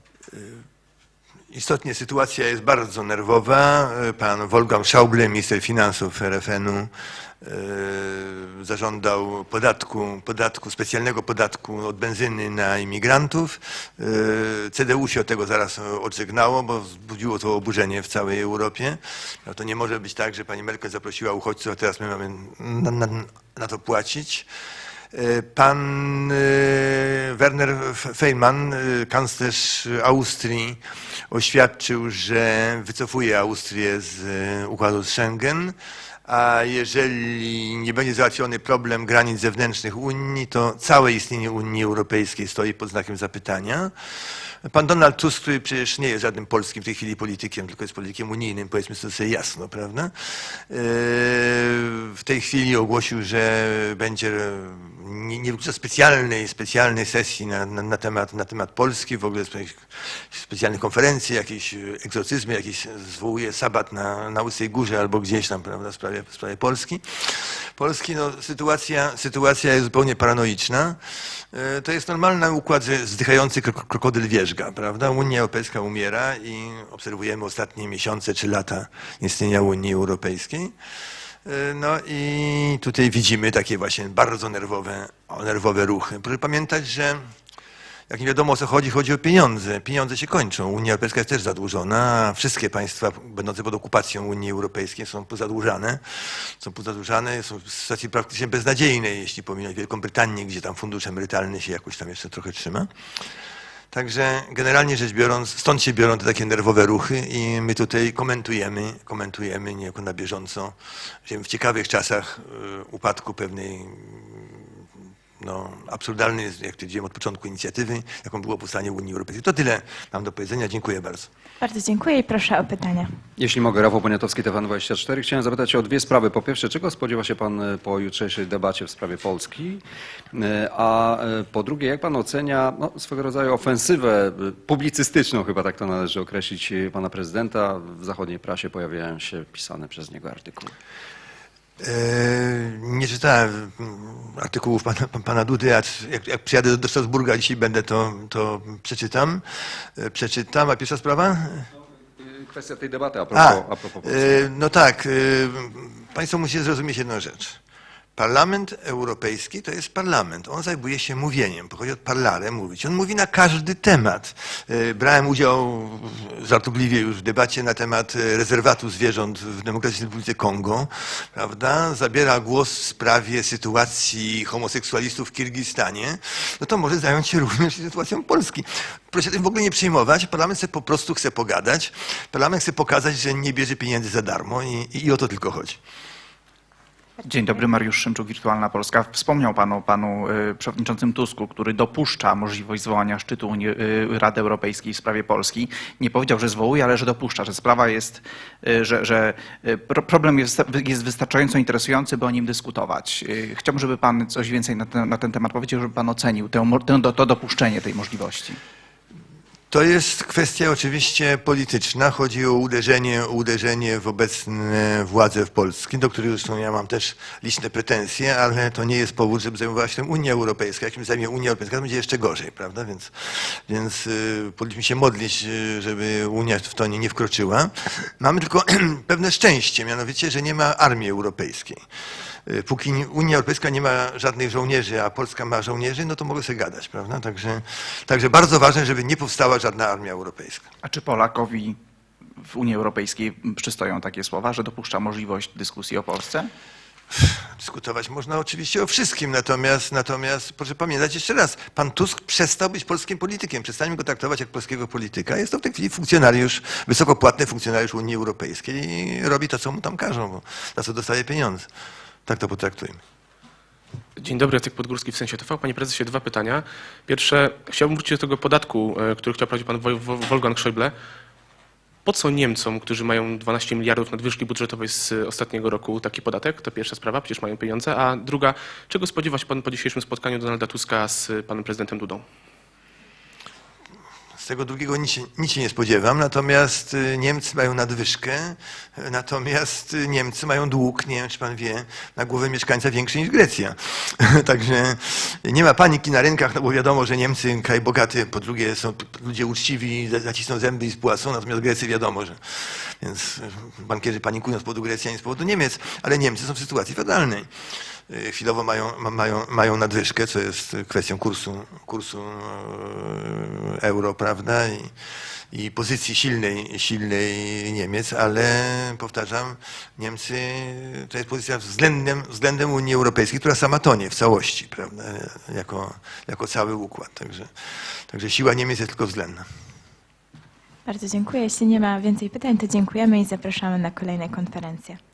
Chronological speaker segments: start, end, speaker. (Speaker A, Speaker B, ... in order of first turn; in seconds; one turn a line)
Speaker A: 0.3-0.6
Speaker A: 1.5-6.9
Speaker A: 7.4-24.4
Speaker A: 25.1-30.8
Speaker A: 31.3-35.7
Speaker A: 36.2-43.9
Speaker A: 44.6-71.0
Speaker A: 71.5-80.7
Speaker A: 81.4-87.2
Speaker A: 88.1-102.9
Speaker A: 103.9-114.7
Speaker A: 115.4-121.3
Speaker B: 121.6-123.1
Speaker C: 123.4-129.8
Speaker C: 130.3-140.7
Speaker A: 141.8-149.4
Speaker A: 150.0-151.7
Speaker C: 152.2-154.4
Speaker A: 153.3-157.6
Speaker A: 158.2-185.8
Speaker D: 187.2-208.6
Speaker A: 209.7-231.8
Speaker A: 232.5-240.7
Speaker D: 240.8-241.8
Speaker D: 242.4-246.5
Speaker A: 247.1-261.7
Speaker A: 262.3-263.0
Speaker E: 264.2-270.9
Speaker E: 272.0-282.2
Speaker A: 284.4-307.5
Speaker A: 308.1-314.9
Speaker A: 315.5-327.5
Speaker A: 328.1-329.4
Speaker B: 330.9-335.0